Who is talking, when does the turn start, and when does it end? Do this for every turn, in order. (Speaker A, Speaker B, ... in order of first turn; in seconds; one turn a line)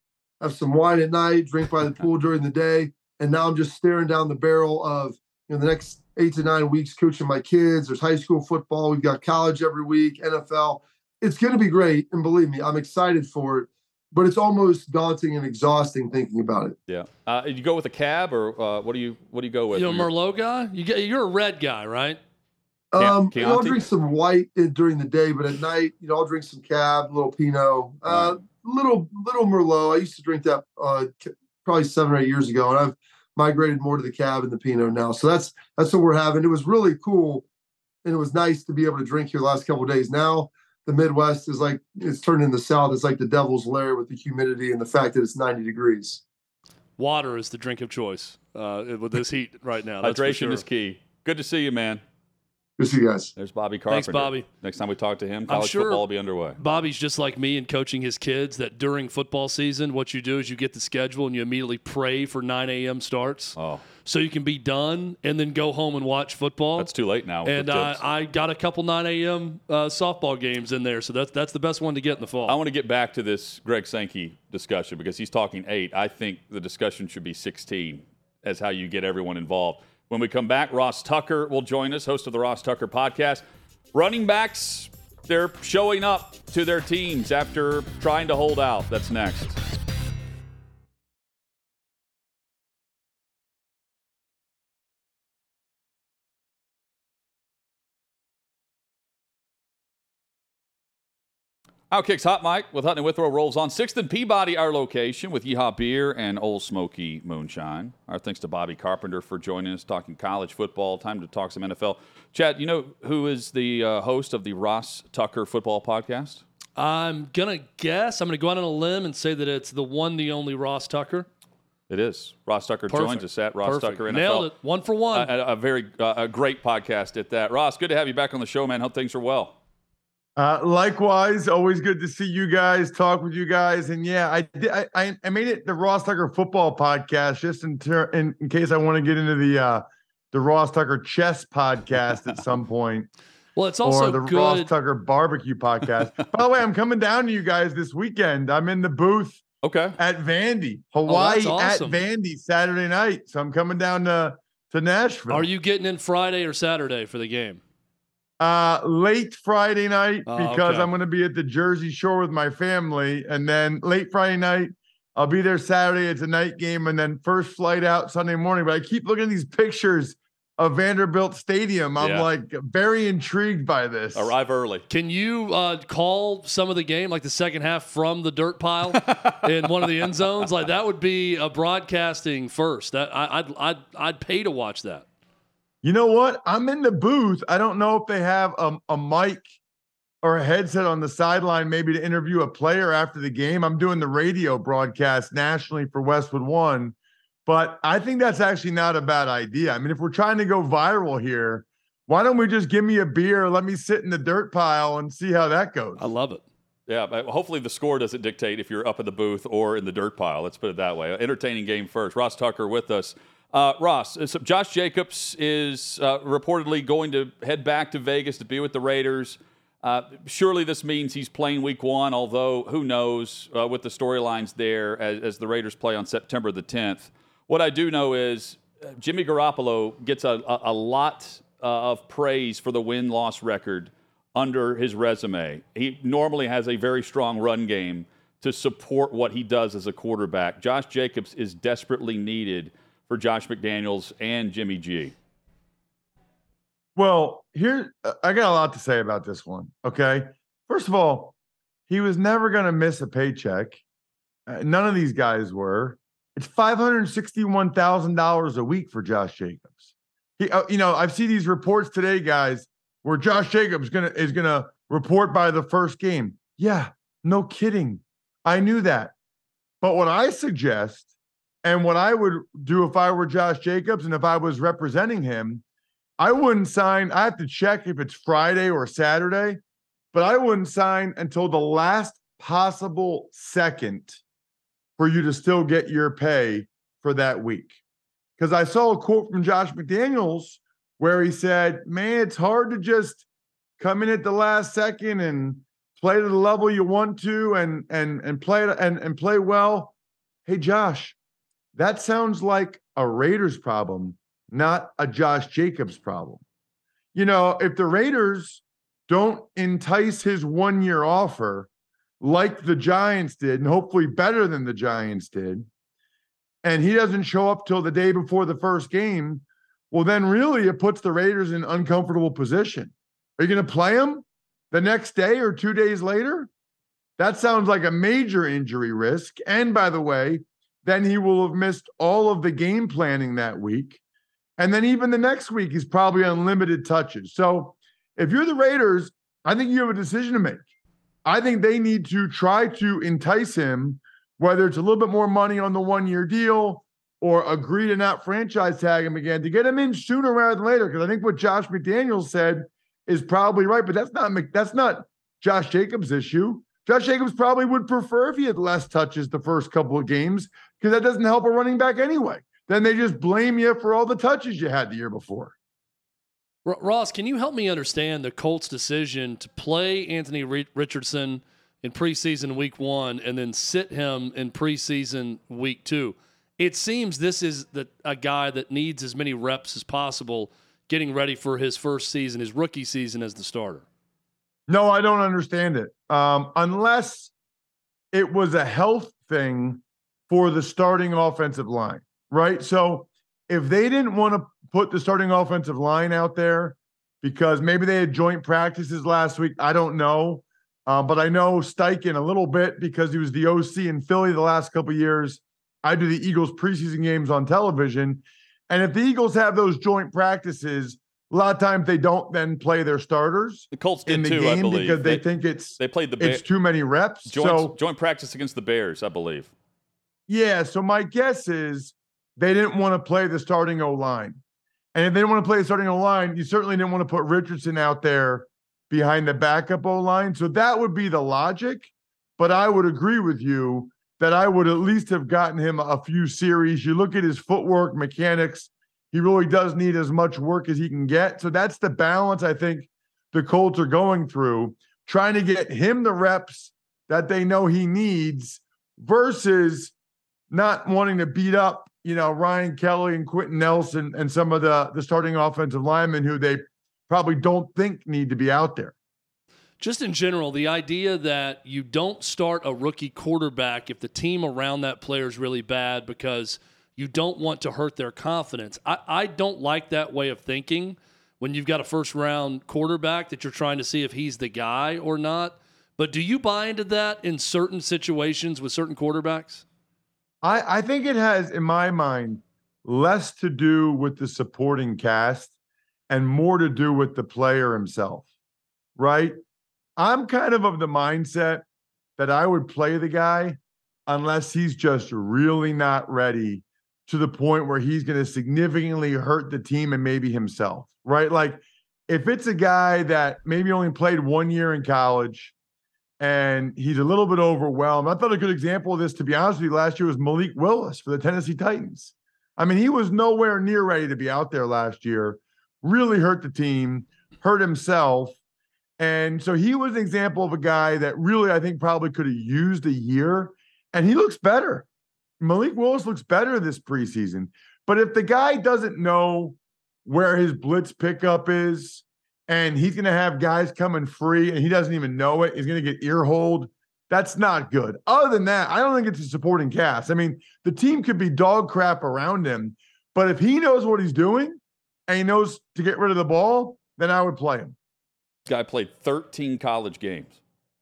Speaker A: 0.4-16.8
Speaker B: 16.9-20.1
Speaker C: 19.7-22.2
Speaker A: 22.9-37.5
Speaker B: 23.0-23.9
Speaker B: 28.1-28.4
Speaker A: 38.0-46.2
Speaker C: 47.0-50.6
Speaker B: 50.0-52.0
Speaker A: 52.8-53.3
Speaker B: 53.4-56.6
Speaker C: 53.9-54.5
Speaker C: 55.5-56.0
Speaker C: 56.6-66.9
Speaker B: 63.6-63.9
Speaker B: 66.8-68.0
Speaker C: 67.5-72.6
Speaker B: 72.5-89.6
Speaker B: 101.9-116.4
Speaker C: 116.8-121.3
Speaker B: 121.9-124.5
Speaker C: 122.9-125.3
Speaker B: 125.1-129.6
Speaker D: 130.4-143.1
Speaker C: 143.6-144.7
Speaker D: 143.8-149.4
Speaker B: 149.6-150.0
Speaker D: 150.0-155.5
Speaker C: 151.1-152.1
Speaker C: 155.3-157.6
Speaker D: 158.4-174.3
Speaker C: 160.3-160.9
Speaker B: 172.0-172.3
Speaker B: 174.2-174.8
Speaker C: 174.9-185.1
Speaker B: 178.9-179.5
Speaker D: 185.8-189.5
Speaker D: 190.2-196.9
Speaker D: 197.5-206.1
Speaker C: 206.0-206.4
Speaker B: 206.9-245.2
Speaker D: 247.0-251.3
Speaker D: 251.9-253.8
Speaker D: 254.5-259.8
Speaker D: 260.4-269.1
Speaker D: 269.8-271.1
Speaker D: 271.6-275.6
Speaker D: 276.2-279.6
Speaker D: 280.1-284.2
Speaker D: 285.0-287.8
Speaker D: 288.4-293.2
Speaker D: 293.8-299.9
Speaker D: 300.5-301.1
Speaker D: 301.8-306.4
Speaker D: 307.1-311.7
Speaker D: 312.2-315.7
Speaker D: 316.6-326.5
Speaker D: 327.2-334.0
Speaker D: 334.6-340.6
Speaker D: 341.2-365.5
Speaker C: 366.6-383.8
Speaker D: 384.7-387.3
Speaker D: 388.1-417.8
Speaker B: 413.7-415.2
Speaker B: 415.8-416.4
Speaker B: 417.3-419.5
Speaker D: 420.3-424.4
Speaker D: 424.9-449.9
Speaker D: 450.5-458.9
Speaker C: 459.8-479.6
Speaker D: 480.4-485.5
Speaker D: 486.1-488.3
Speaker D: 489.0-489.4
Speaker D: 490.0-491.6
Speaker D: 492.2-505.5
Speaker D: 506.2-518.4
Speaker D: 519.0-524.9
Speaker D: 525.4-547.8
Speaker B: 548.5-550.4